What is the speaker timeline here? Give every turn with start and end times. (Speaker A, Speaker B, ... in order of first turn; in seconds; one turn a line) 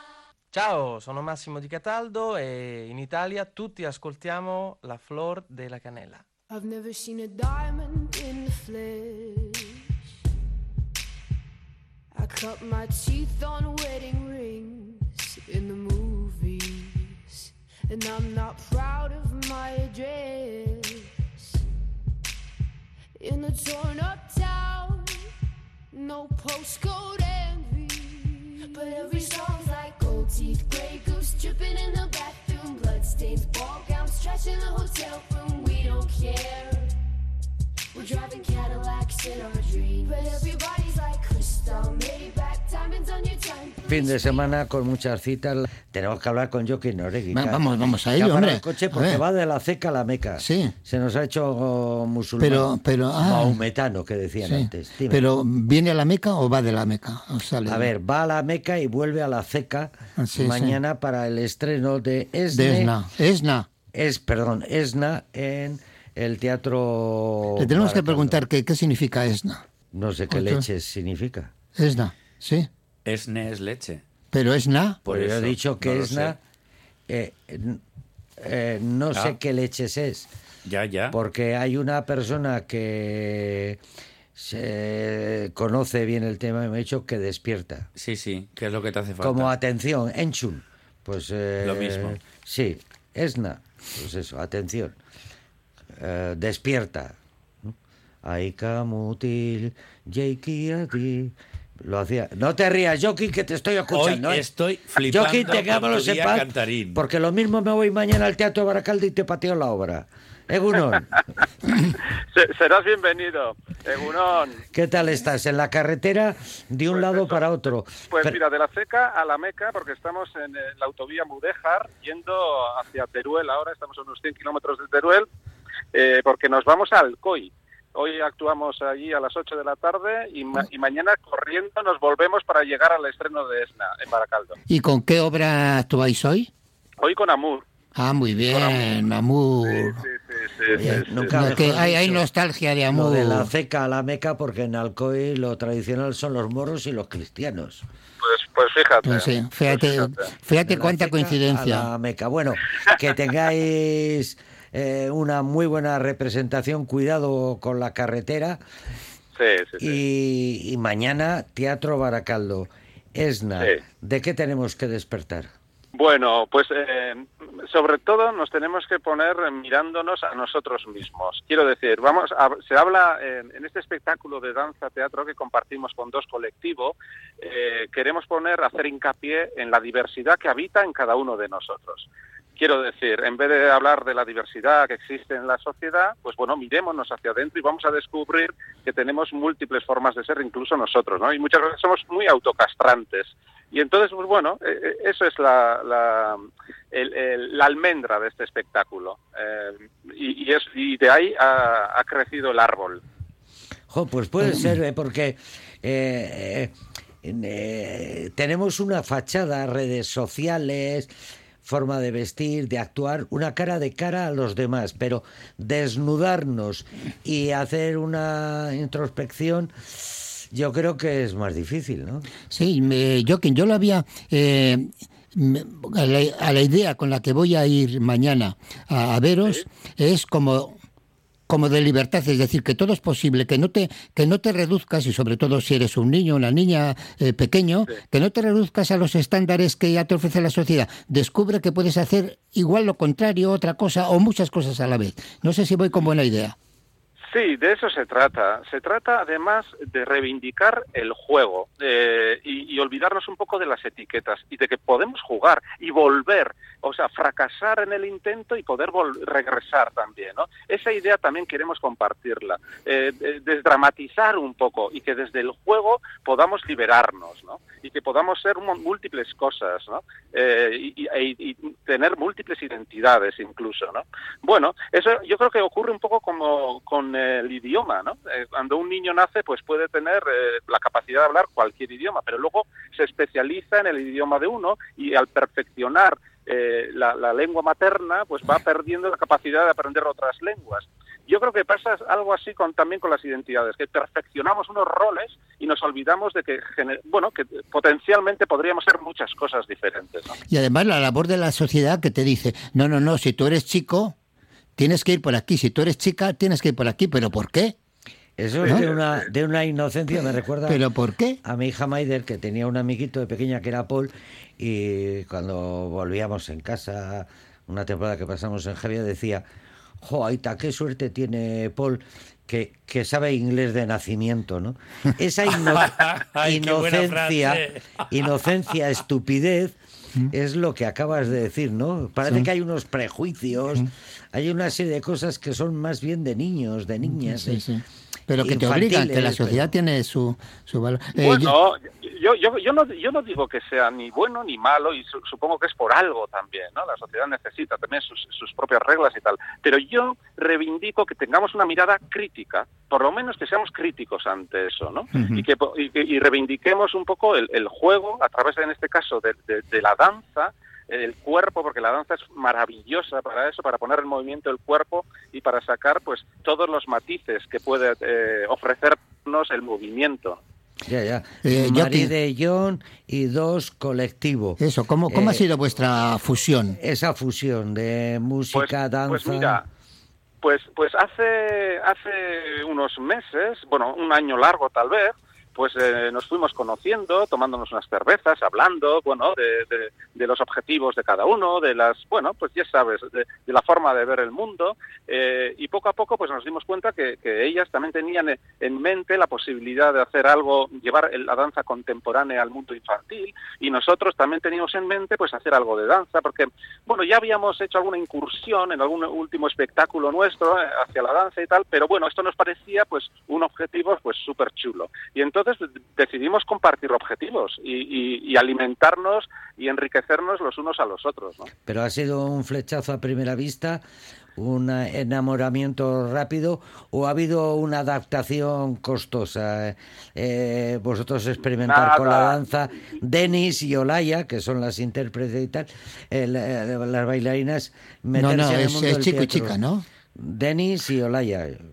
Speaker A: 0.5-6.2
Speaker B: 6.5-9.9
Speaker B: 12.1-21.6
Speaker B: 23.2-25.3
Speaker B: 25.9-36.9
Speaker B: 37.9-44.5
Speaker C: 43.9-55.3
Speaker D: 47.3-49.2
Speaker D: 50.4-50.7
Speaker D: 52.4-53.6
Speaker D: 54.4-57.9
Speaker C: 57.7-62.9
Speaker D: 60.2-60.8
Speaker D: 62.5-63.7
Speaker C: 63.9-68.4
Speaker D: 67.6-69.6
Speaker C: 69.9-71.5
Speaker D: 70.3-70.7
Speaker D: 71.8-72.7
Speaker E: 73.0-74.0
Speaker D: 74.3-75.0
Speaker E: 75.0-76.3
Speaker C: 75.0-76.4
Speaker C: 77.1-77.8
Speaker C: 78.4-80.3
Speaker E: 79.1-79.4
Speaker E: 80.7-81.2
Speaker C: 81.1-83.8
Speaker C: 84.3-87.9
Speaker E: 88.0-89.5
Speaker C: 89.2-95.0
Speaker E: 91.6-92.2
Speaker C: 96.0-97.7
Speaker C: 98.2-104.5
Speaker E: 103.9-107.0
Speaker C: 105.0-111.1
Speaker F: 111.8-114.6
Speaker C: 114.7-118.4
Speaker F: 116.9-117.4
Speaker F: 118.1-125.3
Speaker F: 125.9-134.5
Speaker D: 134.7-136.5
Speaker F: 137.0-137.7
Speaker D: 137.9-140.0
Speaker F: 138.4-138.9
Speaker F: 139.7-141.4
Speaker C: 140.8-142.3
Speaker D: 140.8-143.5
Speaker C: 142.9-147.8
Speaker F: 148.2-150.2
Speaker D: 149.0-151.9
Speaker C: 150.7-158.6
Speaker F: 159.3-160.0
Speaker C: 159.8-165.5
Speaker F: 165.9-203.0
Speaker C: 203.9-211.1
Speaker D: 204.4-204.7
Speaker C: 211.6-222.3
Speaker D: 222.5-230.7
Speaker D: 231.5-246.5
Speaker F: 247.3-300.4
Speaker D: 300.5-304.1
Speaker D: 304.8-307.8
Speaker C: 308.4-310.8
Speaker F: 308.6-309.2
Speaker D: 310.7-311.4
Speaker C: 311.4-319.4
Speaker C: 320.0-329.8
Speaker E: 325.5-328.2
Speaker C: 330.3-337.6
Speaker D: 337.0-341.6
Speaker C: 338.4-339.7
Speaker F: 341.2-370.4
Speaker D: 355.1-355.4
Speaker C: 370.9-375.5
Speaker D: 371.4-372.1
Speaker D: 374.6-376.8
Speaker C: 376.8-379.6
Speaker F: 378.5-379.6
Speaker F: 380.4-421.5
Speaker C: 421.7-423.8
Speaker C: 424.4-439.6
Speaker F: 431.6-432.4
Speaker D: 438.1-439.8
Speaker C: 440.2-441.6